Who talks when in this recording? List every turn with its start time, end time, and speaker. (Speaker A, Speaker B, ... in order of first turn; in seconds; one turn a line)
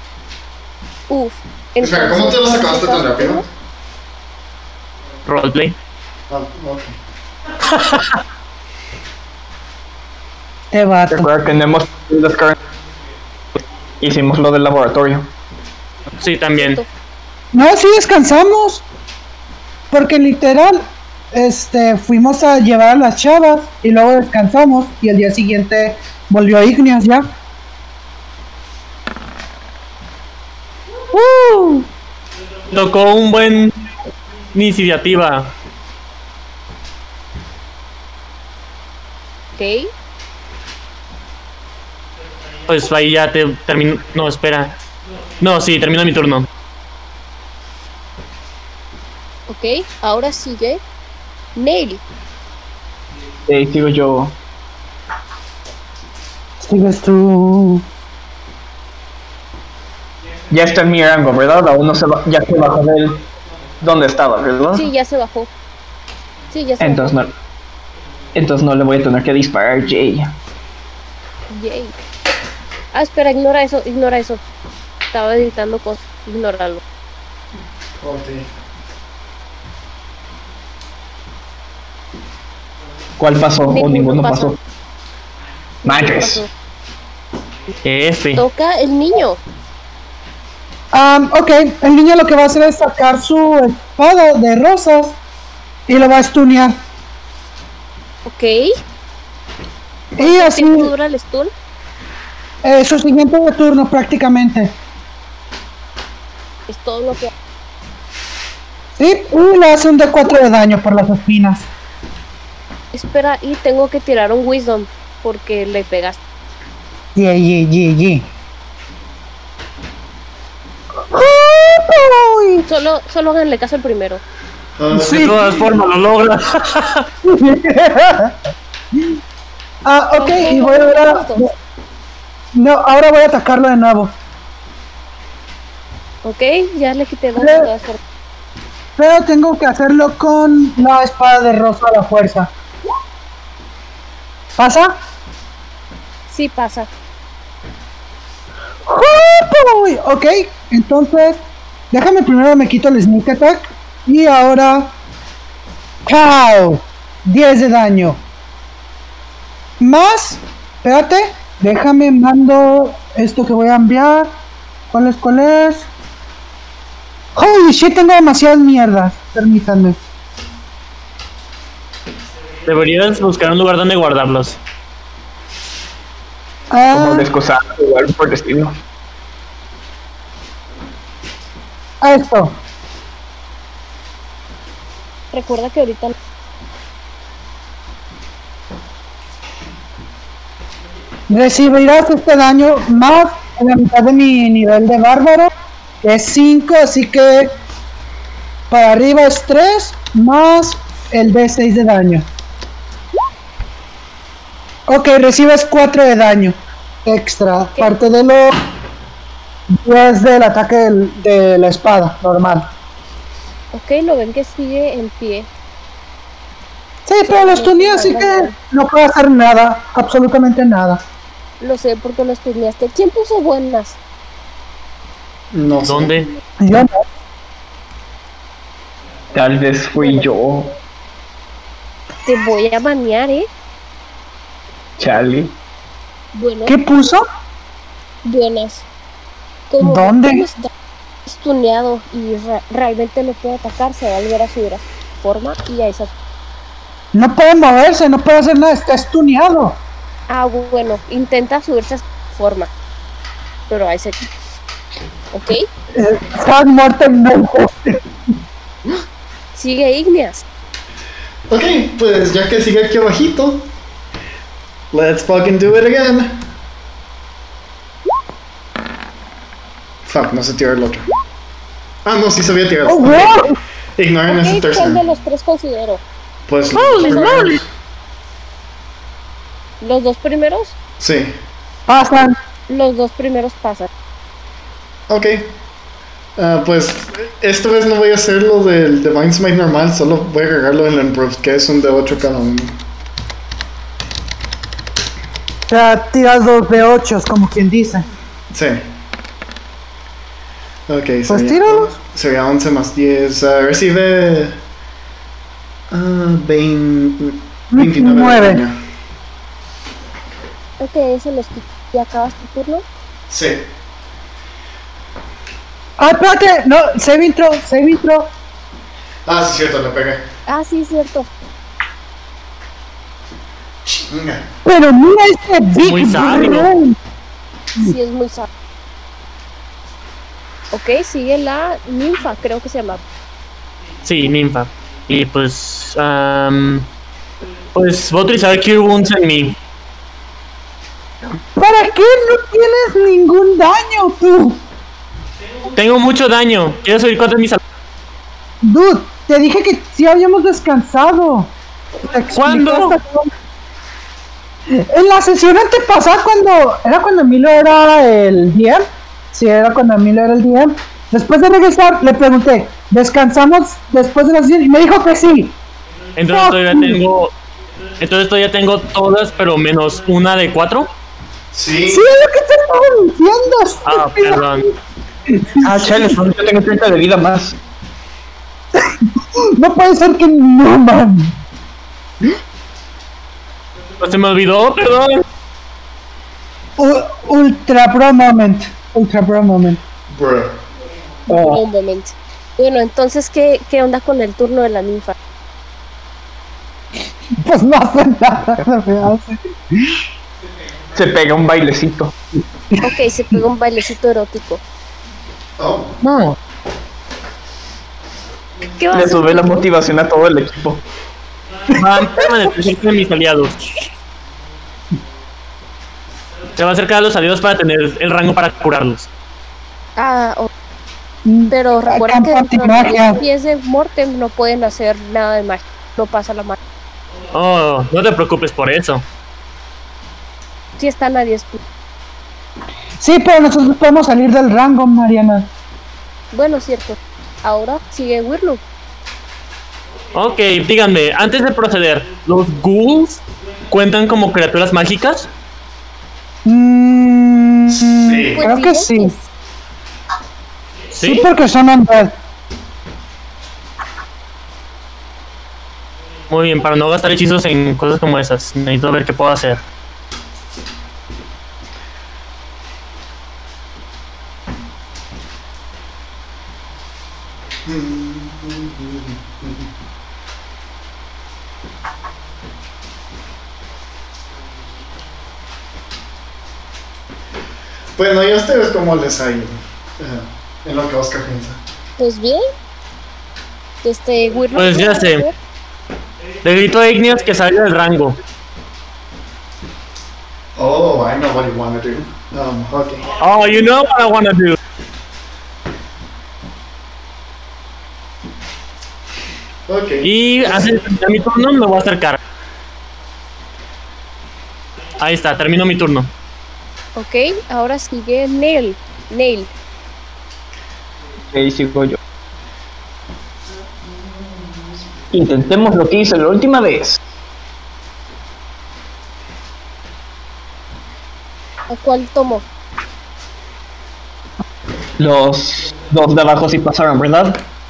Speaker A: 1.1-3.4
Speaker B: 1.8-3.5
Speaker C: 5.2-5.8
Speaker B: 6.3-7.0
Speaker C: 7.7-8.1
Speaker D: 10.7-11.3
Speaker E: 11.1-12.6
Speaker E: 14.0-15.3
Speaker C: 16.2-16.8
Speaker A: 16.6-16.9
Speaker D: 17.5-18.8
Speaker D: 19.9-27.2
Speaker D: 31.1-31.8
Speaker C: 32.7-33.7
Speaker C: 34.5-35.5
Speaker A: 39.5-39.9
Speaker C: 42.7-44.8
Speaker C: 45.4-46.5
Speaker A: 49.5-50.8
Speaker A: 51.5-52.0
Speaker E: 53.5-54.3
Speaker D: 56.6-57.8
Speaker E: 60.5-63.2
Speaker E: 63.8-64.9
Speaker A: 64.7-65.5
Speaker A: 66.5-67.2
Speaker E: 66.8-67.3
Speaker E: 68.3-70.3
Speaker A: 71.5-72.0
Speaker A: 72.9-74.4
Speaker A: 75.1-76.8
Speaker B: 78.0-78.5
Speaker E: 83.2-84.6
Speaker A: 83.7-84.5
Speaker E: 85.8-86.4
Speaker A: 85.8-86.5
Speaker C: 87.8-88.4
Speaker A: 88.3-89.4
Speaker D: 90.9-95.2
Speaker D: 95.9-96.8
Speaker A: 98.2-98.7
Speaker D: 100.1-100.9
Speaker A: 100.2-101.5
Speaker D: 102.6-104.8
Speaker A: 106.7-107.3
Speaker D: 109.0-111.7
Speaker A: 112.9-116.2
Speaker D: 117.2-118.3
Speaker D: 121.1-122.7
Speaker A: 122.7-124.2
Speaker B: 124.8-125.6
Speaker D: 124.9-125.4
Speaker C: 125.0-127.1
Speaker D: 127.2-128.3
Speaker D: 129.8-131.5
Speaker A: 130.1-131.5
Speaker D: 132.5-134.1
Speaker A: 136.2-138.0
Speaker D: 137.4-137.7
Speaker D: 139.0-142.5
Speaker D: 144.6-145.0
Speaker A: 146.3-146.9
Speaker D: 148.8-154.9
Speaker D: 156.1-158.2
Speaker D: 159.8-164.3
Speaker D: 164.9-165.9
Speaker D: 167.3-170.0
Speaker C: 172.7-174.6
Speaker D: 176.7-177.3
Speaker E: 176.9-178.7
Speaker D: 182.0-182.5
Speaker A: 185.3-186.1
Speaker D: 191.3-195.5
Speaker D: 196.0-197.5
Speaker D: 198.7-202.3
Speaker D: 204.9-208.6
Speaker D: 209.7-212.7
Speaker A: 213.7-215.5
Speaker D: 217.1-221.0
Speaker A: 217.2-218.5
Speaker A: 221.6-224.0
Speaker B: 225.5-226.3
Speaker C: 225.8-226.2
Speaker D: 226.6-227.0
Speaker E: 229.3-230.7
Speaker A: 230.0-230.2
Speaker A: 232.2-233.5
Speaker E: 235.0-235.6
Speaker A: 236.3-236.8
Speaker D: 236.7-237.2
Speaker A: 238.2-238.8
Speaker A: 239.7-240.7
Speaker D: 239.8-240.4
Speaker A: 241.2-246.1
Speaker D: 247.1-249.8
Speaker A: 250.3-252.7
Speaker A: 253.7-254.2
Speaker A: 255.3-255.7
Speaker D: 255.9-258.0
Speaker A: 259.5-260.4
Speaker B: 261.5-263.7
Speaker B: 264.9-266.4
Speaker B: 270.0-271.1
Speaker B: 272.0-273.4
Speaker D: 272.9-273.6
Speaker B: 274.0-275.0
Speaker A: 274.3-276.0
Speaker B: 276.5-277.6
Speaker C: 276.8-277.4
Speaker A: 279.8-280.8
Speaker B: 281.0-281.4
Speaker D: 281.9-282.4
Speaker A: 282.7-283.9
Speaker B: 285.1-285.5
Speaker B: 286.4-292.8
Speaker D: 295.7-298.1
Speaker B: 298.5-298.8
Speaker B: 300.9-304.6
Speaker D: 301.3-301.9
Speaker B: 305.9-308.8
Speaker D: 307.7-308.6
Speaker A: 310.8-312.8
Speaker B: 313.3-313.7
Speaker D: 316.0-318.3
Speaker B: 319.2-320.2
Speaker A: 320.5-321.3
Speaker B: 323.8-324.4
Speaker D: 324.6-326.9
Speaker C: 325.8-326.7
Speaker A: 327.8-328.5
Speaker A: 330.7-333.0
Speaker C: 334.0-336.9
Speaker C: 337.7-339.6
Speaker D: 341.6-344.6
Speaker C: 345.7-347.6
Speaker D: 348.6-353.3
Speaker C: 352.3-353.0
Speaker D: 354.7-365.6
Speaker C: 366.1-367.3
Speaker D: 366.3-367.0
Speaker C: 368.0-370.9
Speaker B: 371.5-372.1
Speaker D: 371.9-374.7
Speaker C: 373.9-374.7
Speaker D: 375.3-376.0
Speaker E: 375.6-377.5
Speaker D: 379.4-381.4
Speaker C: 384.0-385.2
Speaker D: 386.8-389.8
Speaker B: 390.1-390.6
Speaker A: 391.3-395.1
Speaker E: 391.3-391.6
Speaker D: 397.4-400.0
Speaker E: 400.9-402.1
Speaker A: 402.8-404.6
Speaker B: 405.6-406.0
Speaker C: 406.0-406.4
Speaker A: 408.7-409.7
Speaker E: 408.9-410.8
Speaker C: 411.7-413.7
Speaker C: 416.6-419.1
Speaker A: 420.0-420.5
Speaker D: 421.2-423.2
Speaker A: 421.5-426.6
Speaker C: 427.3-429.0
Speaker A: 430.8-431.6
Speaker D: 433.0-435.5
Speaker A: 436.3-438.6
Speaker C: 440.1-445.3
Speaker D: 446.4-449.1
Speaker B: 447.7-448.4
Speaker A: 448.3-449.2
Speaker D: 450.9-452.1
Speaker C: 451.0-451.3
Speaker C: 456.3-459.6
Speaker B: 467.6-469.7
Speaker B: 477.9-481.6
Speaker A: 482.0-482.4
Speaker A: 483.8-485.3
Speaker C: 484.5-485.2
Speaker C: 486.4-488.1
Speaker B: 490.6-493.1
Speaker C: 493.2-494.6
Speaker B: 499.7-500.7
Speaker C: 500.0-502.2
Speaker C: 505.0-506.1
Speaker A: 506.9-509.5
Speaker E: 511.3-512.0
Speaker E: 515.1-517.0
Speaker A: 521.7-522.4
Speaker E: 525.0-527.4